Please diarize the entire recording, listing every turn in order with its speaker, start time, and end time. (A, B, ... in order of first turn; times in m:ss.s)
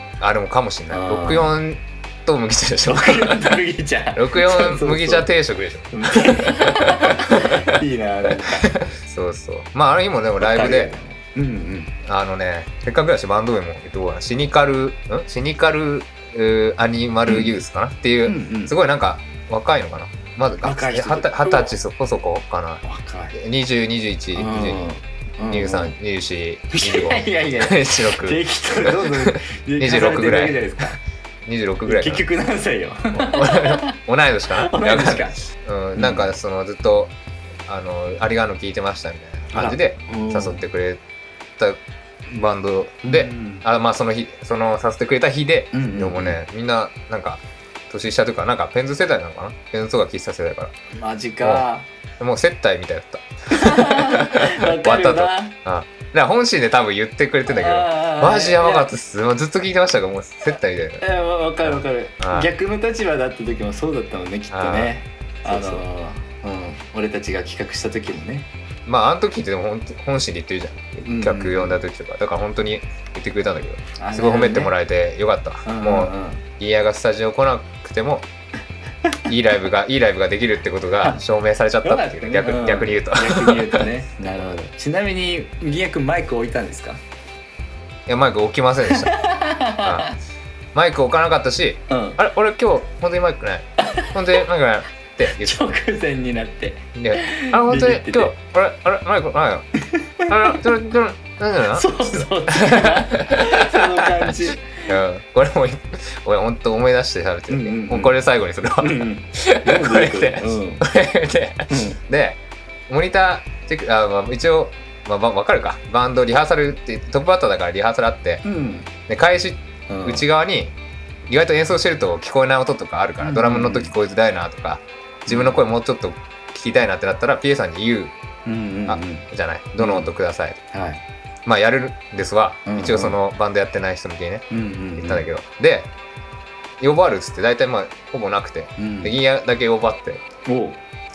0:00.2-0:03.6 A
0:00.9-0:01.6 B
0:02.8-0:05.3 B
0:04.1-0:10.9 A
0:05.9-0:08.8 B
0:10.4-0:12.0 B
0:12.0-0:22.8 A
0:17.2-0:17.5 B
0:18.2-0:18.7 B
0:20.6-0:21.7 B
0:22.8-0:23.4 B
0:23.3-0:24.9 A
0:24.3-0:26.0 B
0:25.5-0:30.6 A
0:26.7-0:31.0 B
0:31.4-0:32.3 A
0:31.8-0:34.0 B
0:33.1-0:37.1 A
0:34.5-0:35.4 B
0:35.9-0:36.3 B
0:37.7-0:41.0 A
0:39.5-0:40.6 B
0:41.6-0:50.7 A
0:43.0-0:43.6 B
0:45.7-0:46.4 B
0:50.9-0:51.9 B
0:52.2-1:01.0 A
0:53.5-0:55.6 B
0:57.5-0:58.9 B
1:01.0-1:08.5 B
1:01.6-1:02.5 A
1:04.5-1:04.9 A
1:05.4-1:05.8 A
1:08.8-1:18.3 A
1:11.0-1:11.8 B
1:14.0-1:14.7 B
1:15.6-1:16.4 B
1:19.3-1:23.8 A
1:21.8-1:27.0 B
1:28.1-1:29.1 A
1:28.9-1:30.2 B
1:29.8-1:30.1 A
1:30.7-1:35.7 A
1:31.9-1:32.2 B
1:33.8-1:34.4 B
1:35.3-1:38.4 B
1:36.9-1:39.7 A
1:39.8-1:40.6 B
1:40.3-1:44.4 A
1:41.7-1:44.9 B
1:44.9-1:58.4 A
1:47.5-1:48.2 B
1:48.8-1:50.9 B
1:51.7-1:52.0 B
1:58.4-1:58.9 B
1:59.1-2:00.7 A
1:59.9-2:00.2 B
2:01.3-2:08.1 A
2:03.2-2:04.0 B
2:05.3-2:05.6 B
2:08.4-2:09.3 B
2:08.9-2:10.6 A
2:09.8-2:10.1 B
2:10.7-2:11.0 B
2:11.4-2:15.9 A
2:12.6-2:13.2 B
2:14.5-2:15.3 B
2:16.8-2:20.2 A
2:18.8-2:19.2 B
2:20.4-2:20.8 B